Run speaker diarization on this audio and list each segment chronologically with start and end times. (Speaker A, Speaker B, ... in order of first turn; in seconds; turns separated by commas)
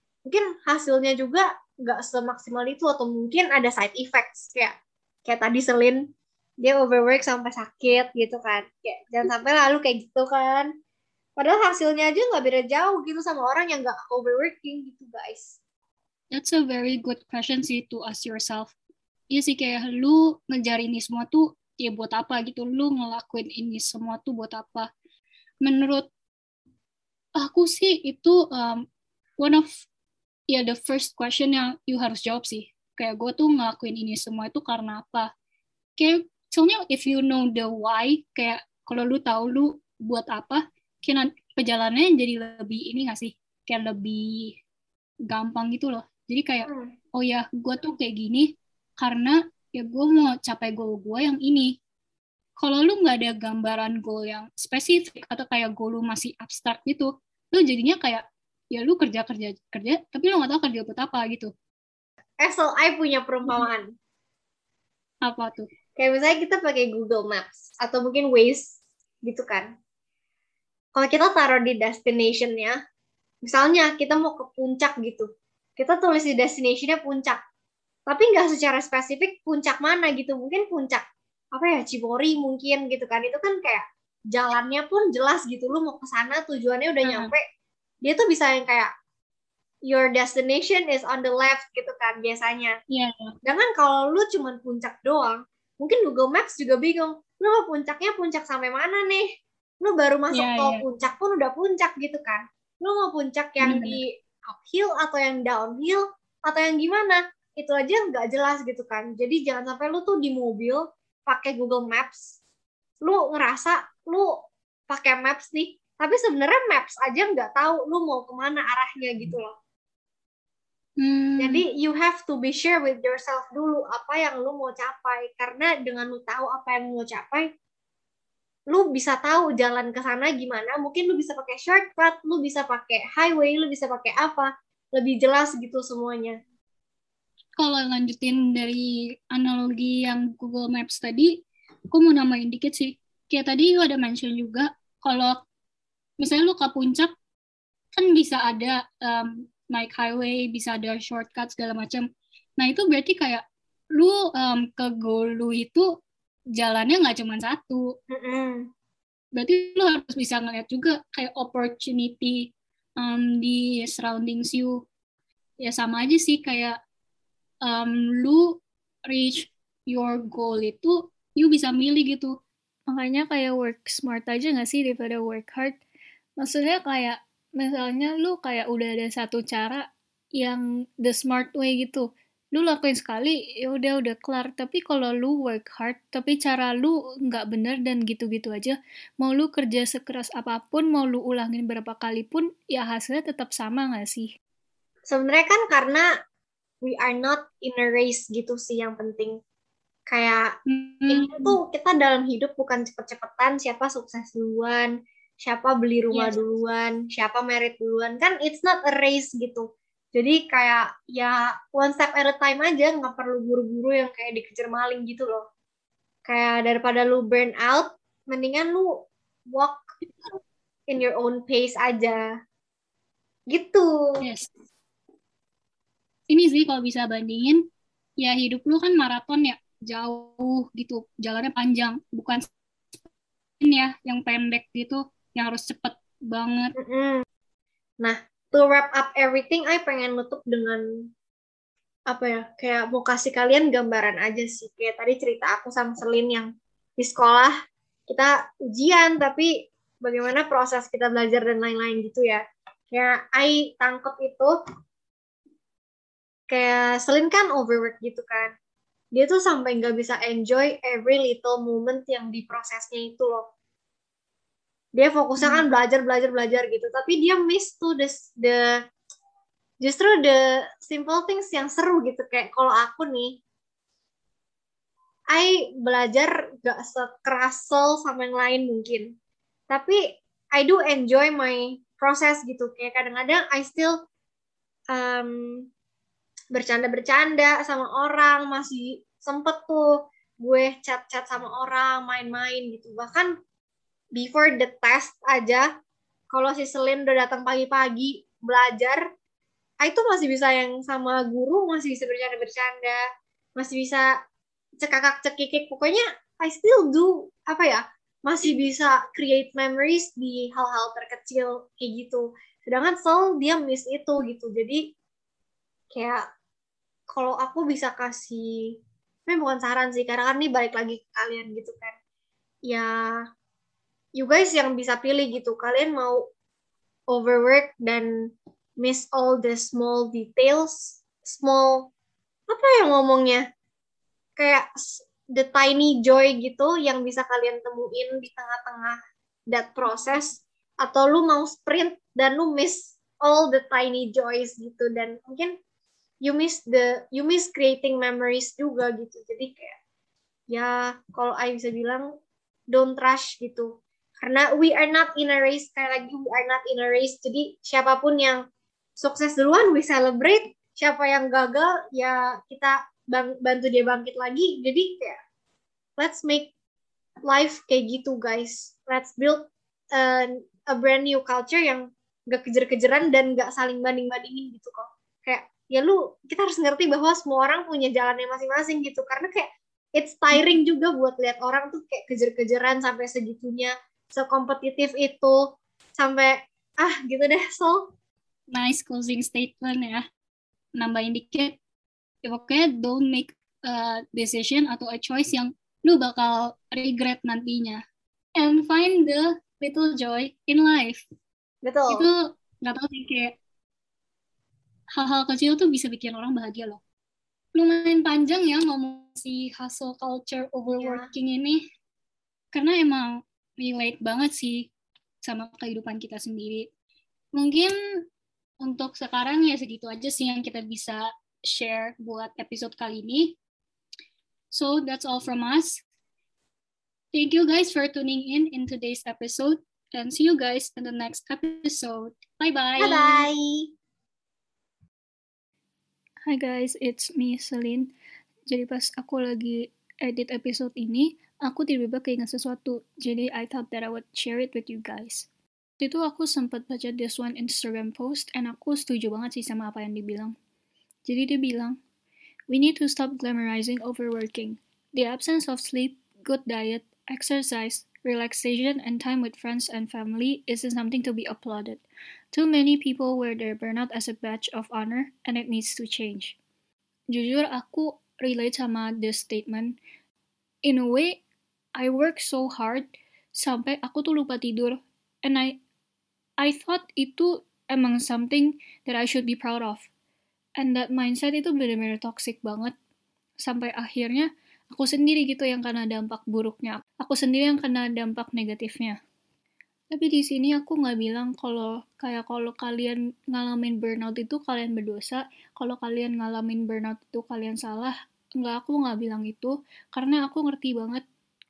Speaker A: 0.3-6.1, Speaker A: 6.6-10.7, Speaker A: 11.4-15.6, Speaker B: 16.3-18.7, Speaker B: 19.3-24.9, Speaker B: 25.6-26.1, Speaker B: 27.4-28.9, Speaker B: 29.4-29.9, Speaker B: 30.5-35.3, Speaker B: 36.0-44.6, Speaker B: 45.3-51.7, Speaker A: 46.7-46.9, Speaker B: 52.6-61.5, Speaker A: 62.4-63.9, Speaker B: 65.2-65.7, Speaker A: 66.0-69.7, Speaker A: 71.0-72.8, Speaker A: 73.4-77.4, Speaker A: 78.1-87.4, Speaker B: 87.0-87.3, Speaker A: 88.0-88.9, Speaker A: 89.9-92.8, Speaker B: 92.9-93.3, Speaker A: 93.5-99.3, Speaker A: 99.8-112.4, Speaker B: 100.3-100.8, Speaker B: 103.6-104.0, Speaker A: 113.0-114.3, Speaker A: 114.9-119.5, Speaker B: 121.0-121.7, Speaker A: 121.4-127.5, Speaker A: 128.7-136.4, Speaker B: 137.6-141.4, Speaker B: 141.9-145.4, Speaker B: 146.2-147.1, Speaker B: 147.9-152.1, Speaker B: 152.6-153.4, Speaker B: 153.9-155.9, Speaker B: 156.6-157.9, Speaker A: 158.1-158.7, Speaker B: 159.4-164.8, Speaker B: 165.6-166.8, Speaker B: 167.6-168.6, Speaker B: 169.1-172.3, Speaker C: 172.9-175.8, Speaker C: 176.4-179.9, Speaker C: 180.4-194.3, Speaker A: 195.1-196.1, Speaker A: 196.8-199.4, Speaker A: 200.1-200.6, Speaker B: 200.7-201.6, Speaker A: 201.1-215.4, Speaker B: 206.1-206.4, Speaker A: 216.3-219.9, Speaker A: 220.9-222.3, Speaker A: 223.5-224.2, Speaker B: 224.2-224.5, Speaker B: 226.3-227.6, Speaker B: 228.2-233.0, Speaker B: 233.6-236.8, Speaker A: 236.8-237.2, Speaker A: 238.0-240.8, Speaker A: 242.1-247.5, Speaker A: 248.1-254.6, Speaker A: 256.5-258.5, Speaker A: 259.1-263.5, Speaker A: 264.9-268.8, Speaker B: 265.4-265.6, Speaker A: 269.8-273.4, Speaker A: 275.3-279.1, Speaker A: 279.7-284.0, Speaker A: 284.9-285.7, Speaker A: 286.5-293.4, Speaker A: 294.1-295.7, Speaker A: 296.3-299.0, Speaker A: 299.8-303.0, Speaker A: 303.6-304.1, Speaker A: 304.8-314.8, Speaker A: 315.9-316.2, Speaker A: 317.1-322.0, Speaker A: 324.2-326.3, Speaker A: 327.1-328.1, Speaker A: 328.8-331.9, Speaker A: 332.5-333.4, Speaker A: 334.4-339.0, Speaker A: 339.5-345.6, Speaker B: 339.9-340.2, Speaker A: 346.2-349.8, Speaker A: 350.5-352.1, Speaker A: 352.7-358.4, Speaker A: 359.0-365.2, Speaker A: 366.0-366.5, Speaker A: 367.3-387.9, Speaker B: 380.3-380.6, Speaker B: 388.5-390.0, Speaker B: 390.8-391.6, Speaker B: 392.2-397.8, Speaker B: 398.4-401.0, Speaker A: 401.6-402.1, Speaker B: 401.9-403.4, Speaker B: 405.0-406.8, Speaker B: 407.6-411.6, Speaker A: 410.7-411.1, Speaker B: 412.5-414.7, Speaker B: 415.2-416.7, Speaker B: 417.4-417.7, Speaker B: 418.6-423.4, Speaker B: 424.5-425.8, Speaker B: 427.1-433.3, Speaker A: 432.8-433.7, Speaker C: 436.2-437.9, Speaker C: 438.5-445.3, Speaker C: 445.8-450.4, Speaker C: 451.1-451.8, Speaker C: 452.5-461.8, Speaker C: 462.3-466.4, Speaker C: 467.1-469.8, Speaker C: 470.6-471.2, Speaker C: 471.8-475.6, Speaker C: 476.4-479.9, Speaker C: 480.6-482.7, Speaker C: 483.4-489.0, Speaker C: 489.9-501.0